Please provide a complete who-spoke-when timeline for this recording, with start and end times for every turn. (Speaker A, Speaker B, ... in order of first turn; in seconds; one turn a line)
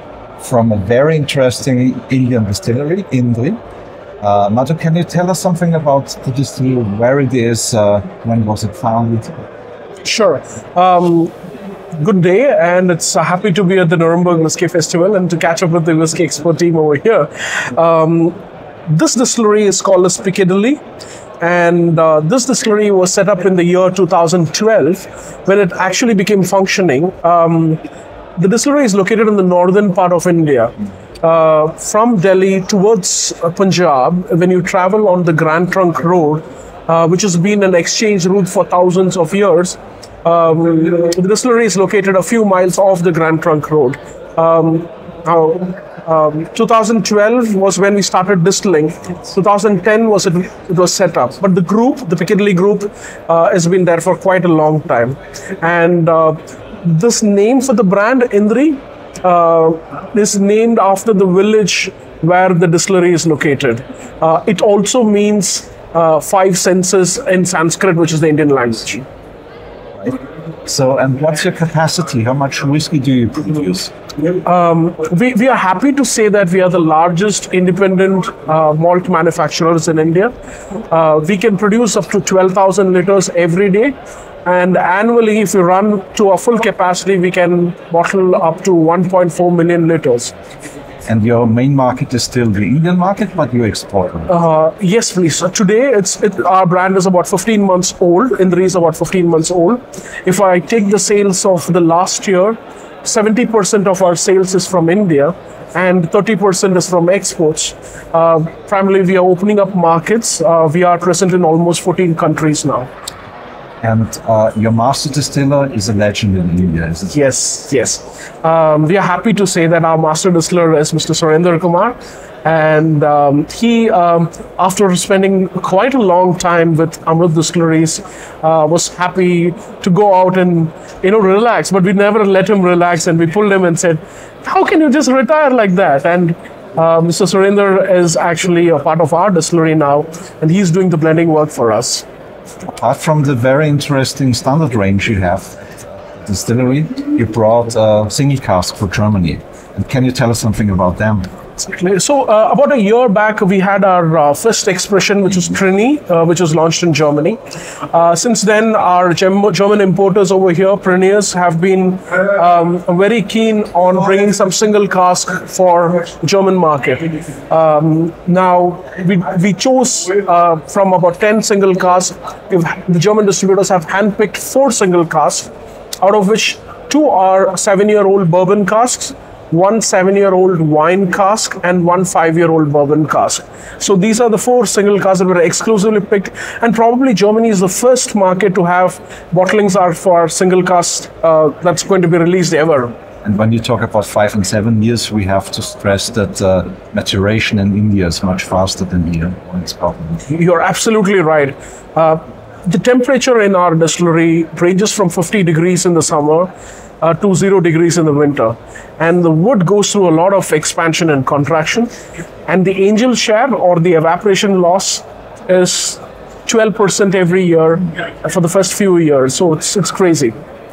Speaker A: 0.4-3.6
Speaker A: 4.2-9.4
Speaker B: 10.0-11.3
Speaker B: 11.9-20.8
Speaker B: 21.4-27.8
Speaker B: 28.4-69.1
Speaker A: 70.0-73.9
Speaker B: 74.4-80.3
Speaker B: 80.9-90.3
Speaker A: 91.1-94.3
Speaker B: 94.3-112.9
Speaker A: 113.8-117.2
Speaker B: 117.1-142.1
Speaker A: 142.7-151.3
Speaker B: 151.6-157.4
Speaker B: 157.9-175.5
Speaker B: 176.0-192.9
Speaker A: 193.2-200.2
Speaker B: 200.3-211.9
Speaker B: 212.5-220.4